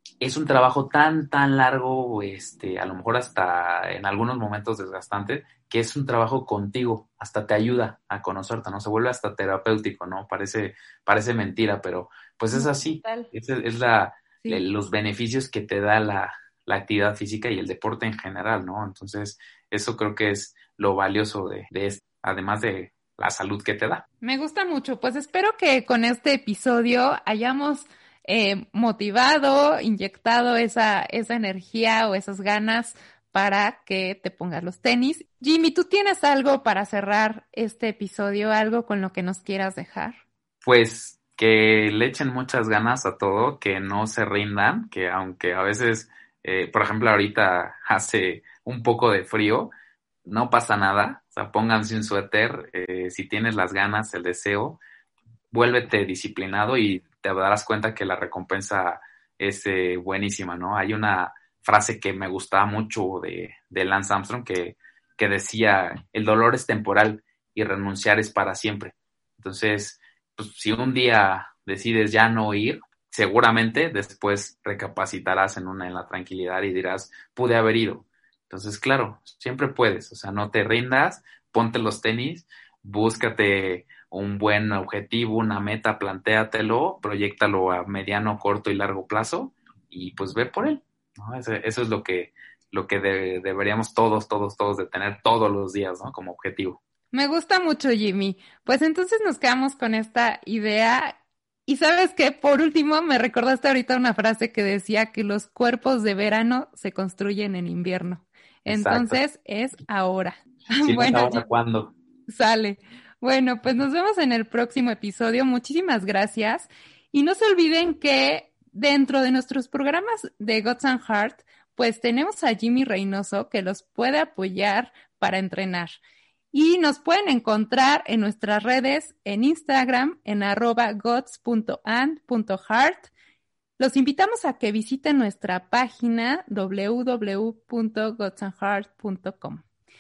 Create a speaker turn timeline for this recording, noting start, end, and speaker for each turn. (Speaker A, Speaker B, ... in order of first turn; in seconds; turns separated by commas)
Speaker A: 0.2-24.1, Speaker B: 12.5-13.3, Speaker B: 24.2-40.2, Speaker A: 40.6-49.7, Speaker A: 50.2-54.8, Speaker A: 55.5-96.8, Speaker B: 97.1-111.4, Speaker A: 108.7-109.2, Speaker A: 110.8-111.9, Speaker B: 112.3-126.0, Speaker B: 126.5-133.1, Speaker B: 133.8-139.6